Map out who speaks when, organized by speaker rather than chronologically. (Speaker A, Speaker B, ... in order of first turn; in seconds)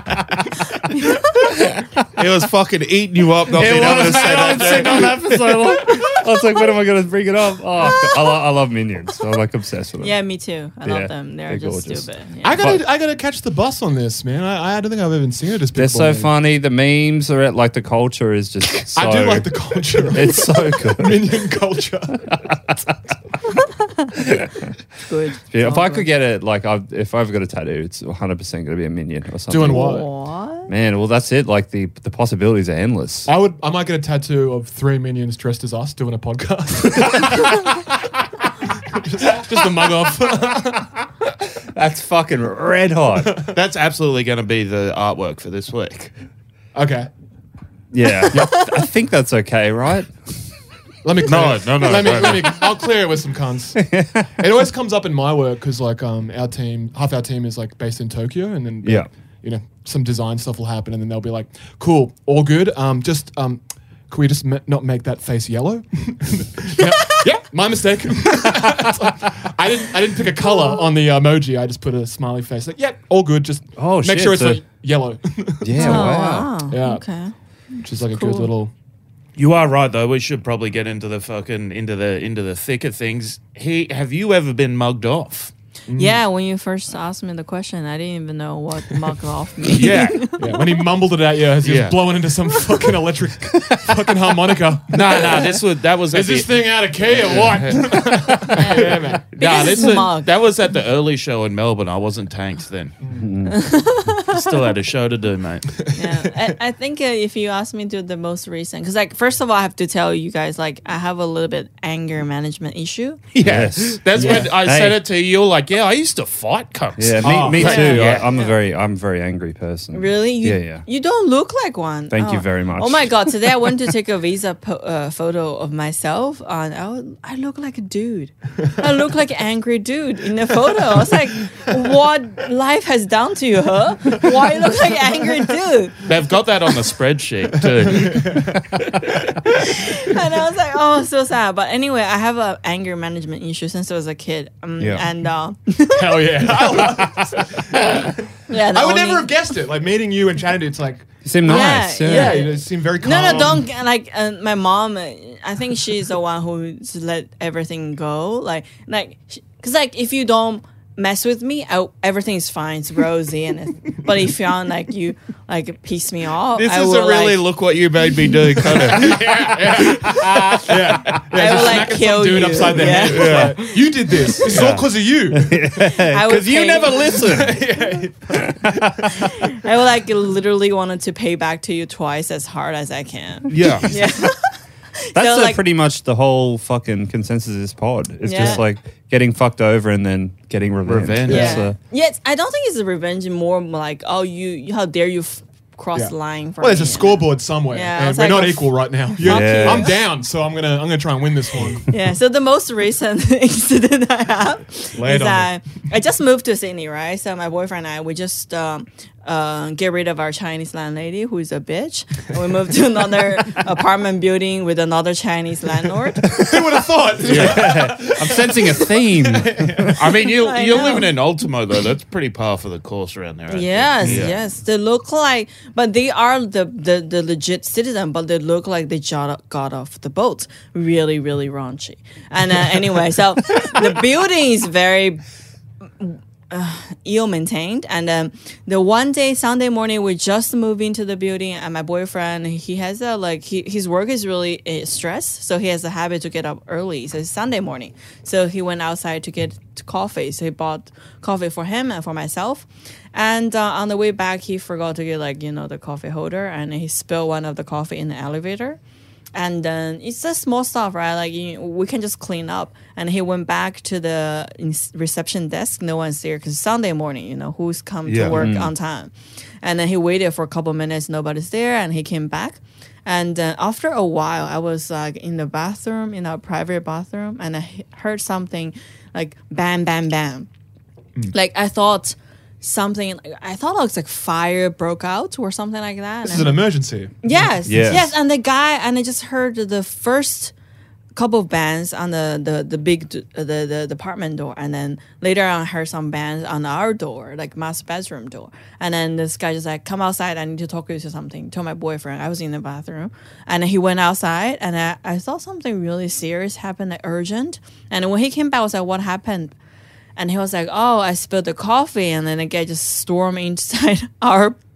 Speaker A: 0.9-1.4, 10.0-12.7, 25.1-26.1, 29.6-30.7, 70.5-70.7, 75.8-78.5, 86.0-90.8, 98.5-100.3, 103.5-104.3, 105.9-113.2, 117.7-118.5, 119.9-136.0, 139.6-146.9, 148.5-149.3, 151.4-167.4, 170.1-170.6, 171.3-173.5, 175.8-177.3, 179.2-184.4, 185.0-185.6, 188.2-188.6, 191.3-200.0, 201.9-216.5, 220.4-221.1, 223.5-235.2, 236.0-258.8, 259.3-280.5, 281.3-286.6, 287.2-290.5, 291.1-309.5, 310.2-314.6
Speaker B: 1.3-2.0, 3.5-10.2, 10.8-12.1, 15.8-21.5, 22.3-23.0, 24.1-24.7, 25.5-30.1, 30.7-33.3, 41.7-43.5, 47.9-50.1, 53.8-54.3, 58.8-59.1, 73.8-74.6, 75.6-76.5, 103.1-104.0, 113.4-115.0, 117.0-120.8, 122.1-123.3, 144.8-145.1, 151.2-152.5, 175.3-177.8, 178.3-179.1, 183.6-183.8, 185.2-191.8, 199.2-200.0, 217.2-220.0, 268.3-268.7, 287.7-288.1
Speaker C: 2.2-5.3, 43.5-46.1, 51.2-52.7, 79.4-85.5, 89.7-90.3, 91.6-92.0, 94.9-102.9, 104.3-105.7, 113.3-118.3, 136.1-138.4, 166.6-169.4, 173.0-173.8, 174.4-174.9, 183.5-183.9, 190.8-191.6, 217.2-217.7, 219.9-224.3, 268.1-268.4
Speaker D: 3.5-6.2, 12.4-16.3, 18.9-22.3, 29.5-30.1, 33.3-38.0, 38.9-40.9, 43.2-43.5, 46.8-47.1, 48.3-48.6, 51.0-76.1, 76.7-77.0, 77.8-78.7, 85.9-86.2, 90.4-95.5, 96.1-99.3, 103.0-103.3, 105.8-106.4, 114.2-114.5, 117.2-118.0, 137.7-139.3, 145.9-153.7, 168.7-175.7, 177.1-179.3, 191.3-191.6, 195.9-201.9, 204.9-205.5, 216.3-220.1, 286.2-288.0